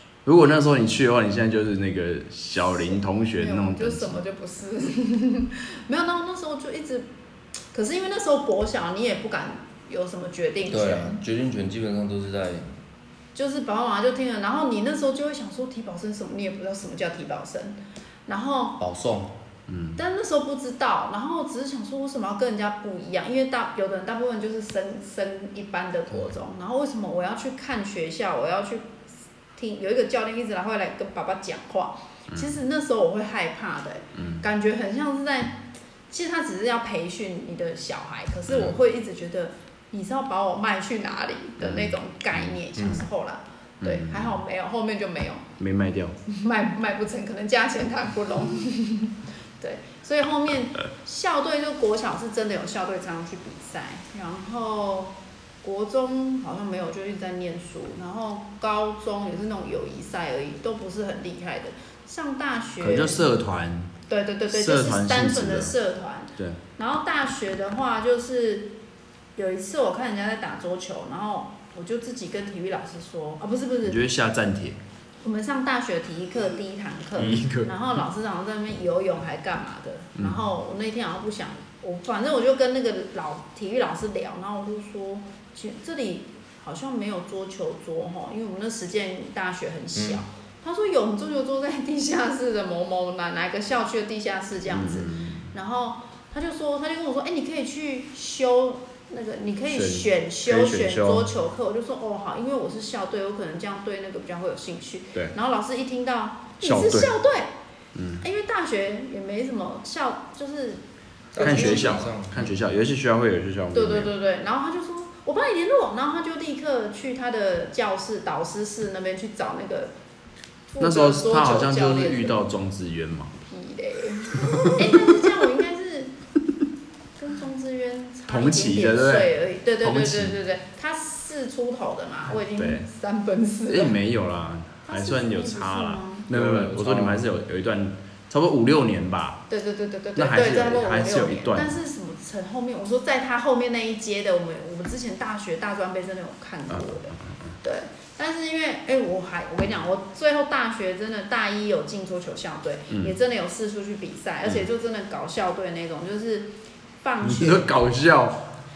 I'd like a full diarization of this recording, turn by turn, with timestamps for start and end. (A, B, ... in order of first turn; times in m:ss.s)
0:00.2-0:04.2 A
0:02.6-0:07.1 B
0:07.7-0:11.2 B
0:10.7-0:12.7 C
0:13.4-0:18.8 B
0:18.8-0:19.3 C
0:19.7-0:20.0 A
0:20.0-0:28.9 B
0:29.6-0:35.6 B
0:32.3-0:32.6 A
0:34.2-0:34.4 A
0:36.1-0:45.4 B
0:38.5-0:38.8 A
0:41.6-0:42.6 A
0:43.8-0:44.4 A
0:45.6-0:46.2 A
0:46.3-1:03.4 B
1:02.8-1:03.9 A
1:04.1-1:08.7 B
1:04.5-1:05.8 A
1:09.4-1:14.0 B
1:13.8-1:14.8 A
1:15.2-1:47.5 B
1:17.2-1:17.7 A
1:20.2-1:20.4 A
1:30.0-1:30.2 C
1:34.7-1:35.5 A
1:39.7-1:41.3 A
1:46.6-1:47.1 A
1:47.9-1:48.2 A
1:48.2-1:50.8 B
1:51.3-1:52.5 C
1:51.4-1:52.0 B
1:51.4-1:54.1 A
1:53.7-1:59.9 B
2:00.7-2:02.4 B
2:00.8-2:03.3 A
2:03.5-2:06.1 B
2:04.4-2:05.1 A
2:07.2-2:14.0 B
2:08.3-2:10.4 A
2:12.6-2:12.8 A
2:13.7-2:19.4 A
2:14.8-2:16.3 B
2:16.3-2:17.3 C
2:19.5-2:37.7 B
2:20.2-2:21.8 A
2:26.7-2:27.5 A
2:32.9-2:33.2 A
2:37.2-2:38.4 A